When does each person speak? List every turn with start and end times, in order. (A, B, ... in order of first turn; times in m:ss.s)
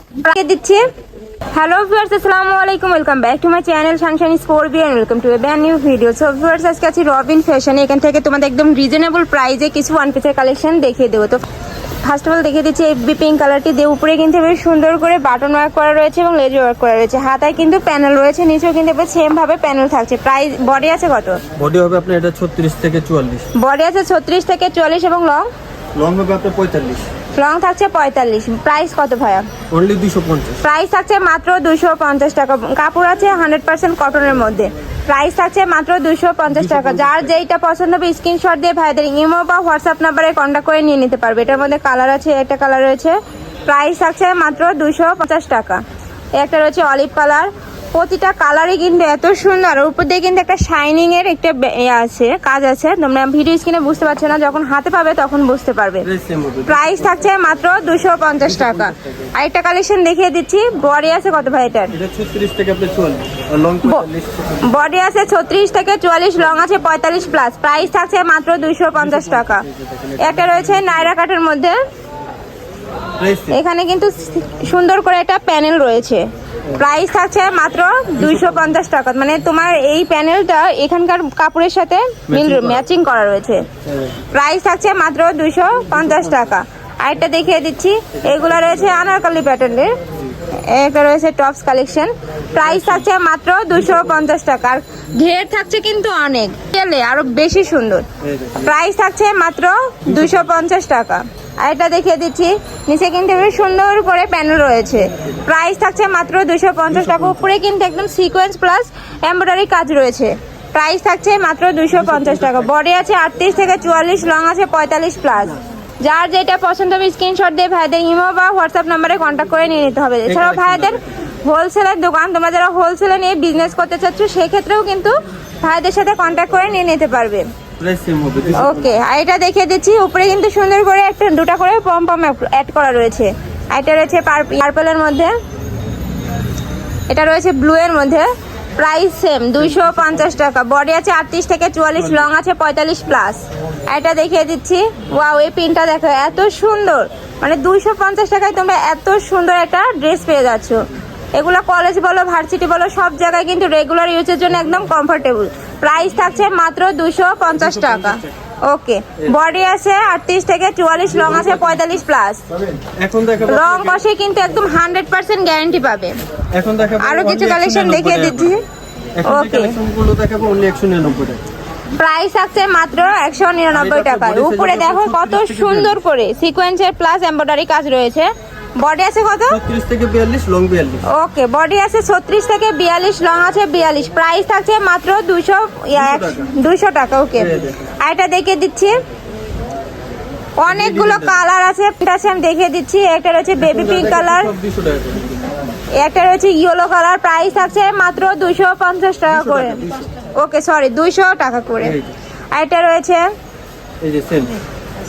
0:00.2-0:00.9 A
0:01.5-0:11.4 A
0:12.0-0:21.4 A
0:21.6-0:23.5 B
0:23.5-0:25.5 A
0:26.0-0:27.1 B
0:27.4-0:29.5 A
0:29.7-0:30.6 B
0:30.6-0:45.8 A
0:36.5-0:37.3 B
0:46.4-0:56.1 A
0:56.0-0:57.0 B
0:56.7-1:01.9 A
0:58.4-0:59.3 B
1:01.9-1:04.8 B
1:04.6-1:09.6 A
1:09.0-1:11.1 B
1:10.2-1:11.8 A
1:13.2-1:13.6 B
1:13.5-1:23.7 A
1:18.2-1:18.7 B
1:22.3-1:22.8 B
1:23.9-1:24.2 B
1:24.3-1:30.0 A
1:25.9-1:26.5 B
1:28.2-1:29.0 B
1:30.5-1:38.1 A
1:32.6-1:33.1 B
1:38.2-1:38.8 B
1:38.6-2:07.5 A
1:40.1-1:40.5 B
1:46.9-1:47.5 B
1:51.9-1:52.7 B
2:00.2-2:01.1 B
2:07.8-2:09.0 B
2:08.6-2:15.3 A
2:17.1-2:30.8 A
2:31.4-2:42.4 A
2:37.6-2:38.3 B
2:41.1-2:41.8 B
2:42.6-2:44.0 B
2:43.5-2:46.2 A
2:46.5-2:48.6 B
2:47.0-2:48.7 A
2:49.2-2:51.4 B
2:49.2-2:49.8 A
2:52.0-2:59.6 A
2:53.7-2:56.0 B
2:59.5-3:01.1 B
3:01.0-3:09.0 A
3:05.9-3:06.5 B
3:07.4-3:07.9 B
3:10.6-3:14.5 A
3:10.6-3:11.5 B
3:13.6-3:15.5 B
3:16.0-3:19.8 A
3:19.3-3:20.1 B
3:20.4-3:22.0 A
3:21.8-3:22.2 B
3:22.5-3:23.3 A
3:24.0-3:24.6 B